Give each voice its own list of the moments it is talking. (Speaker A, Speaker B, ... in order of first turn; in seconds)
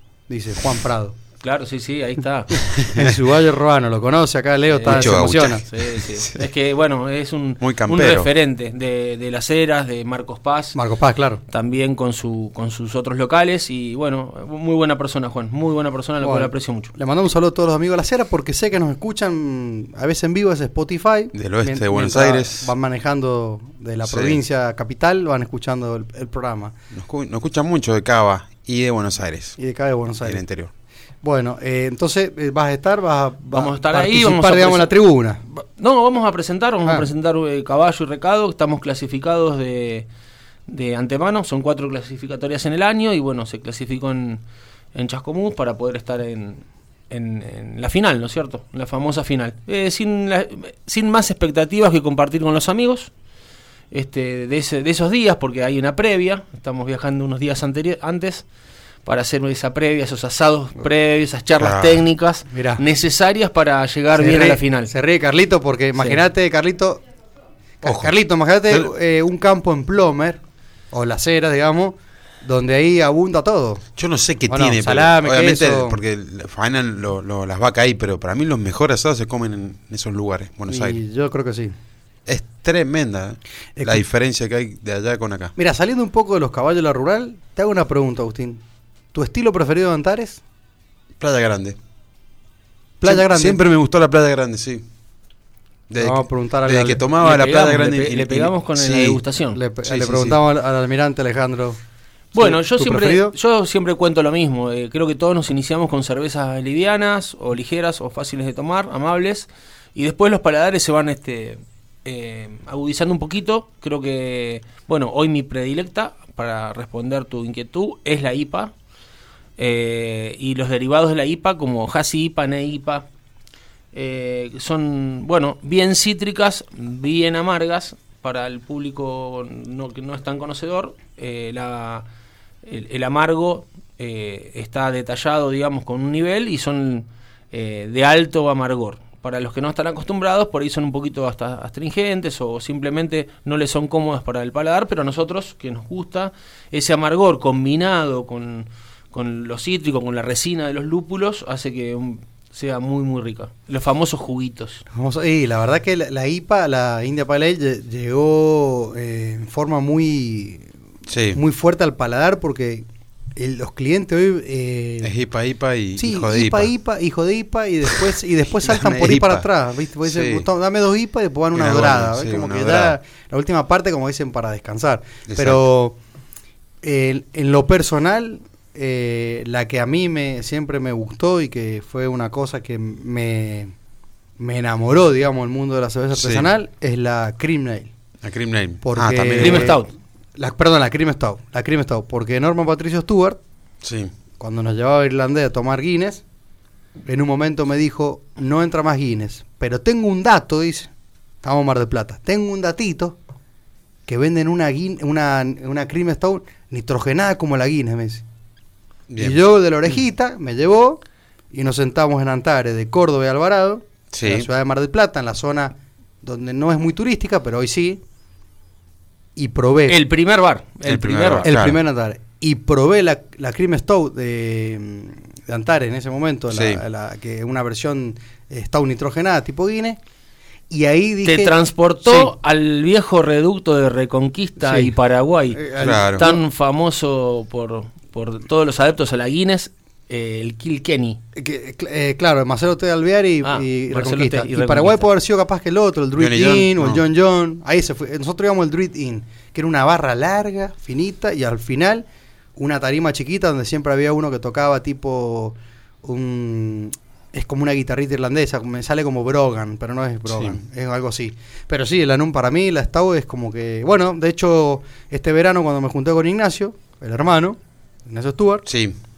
Speaker A: 0.3-1.1, 2.7-5.7, 10.7-11.4, 16.2-26.7, 29.6-30.4, 31.2-35.4, 62.5-62.8, 64.2-67.0, 67.8-70.4, 70.9-73.9, 74.5-76.0, 80.7-81.7, 83.8-84.0, 85.6-88.6, 89.1-90.4, 93.0-93.6, 96.0-97.0, 99.5-101.8, 102.3-103.3, 154.9-160.7, 161.3-162.8, 163.4-165.1, 166.0-176.0, 176.8-183.7, 184.4-187.9, 188.8-189.8, 190.4-193.4, 194.4-196.2, 197.1-200.9, 201.4-203.2, 204.1-208.2, 209.2-218.0, 219.4-220.0, 221.4-230.0, 230.7-232.3, 234.6-234.9, 235.5-236.4, 241.4-252.1, 252.6-268.7
Speaker B: 1.4-2.6, 4.7-10.8, 11.5-16.9, 33.5-34.9, 35.5-40.1, 40.7-44.4, 44.9-53.1, 53.9-58.5, 59.0-64.9, 97.2-99.6, 102.3-118.7, 119.6-123.1, 123.9-132.1, 132.7-154.8, 189.4-189.9, 219.9-221.5, 231.2-241.2, 243.4-245.1
Speaker C: 2.8-3.1, 4.8-6.5, 7.6-8.3, 21.3-22.7, 24.0-24.4, 26.9-29.6, 30.2-30.7, 61.6-62.0, 67.8-68.1, 74.0-81.0, 82.3-85.5, 91.2-91.8, 93.0-94.8, 95.9-99.2, 99.8-100.4, 161.1-161.4, 165.0-166.7, 168.7-169.5, 170.1-170.4, 171.5-173.0, 175.3-175.6, 186.1-186.5, 188.2-189.8, 193.8-194.1, 209.1-209.4, 214.1-214.5, 220.8-221.8, 226.5-226.8, 235.8-236.3, 246.2-247.0, 260.3-260.6, 268.7-269.0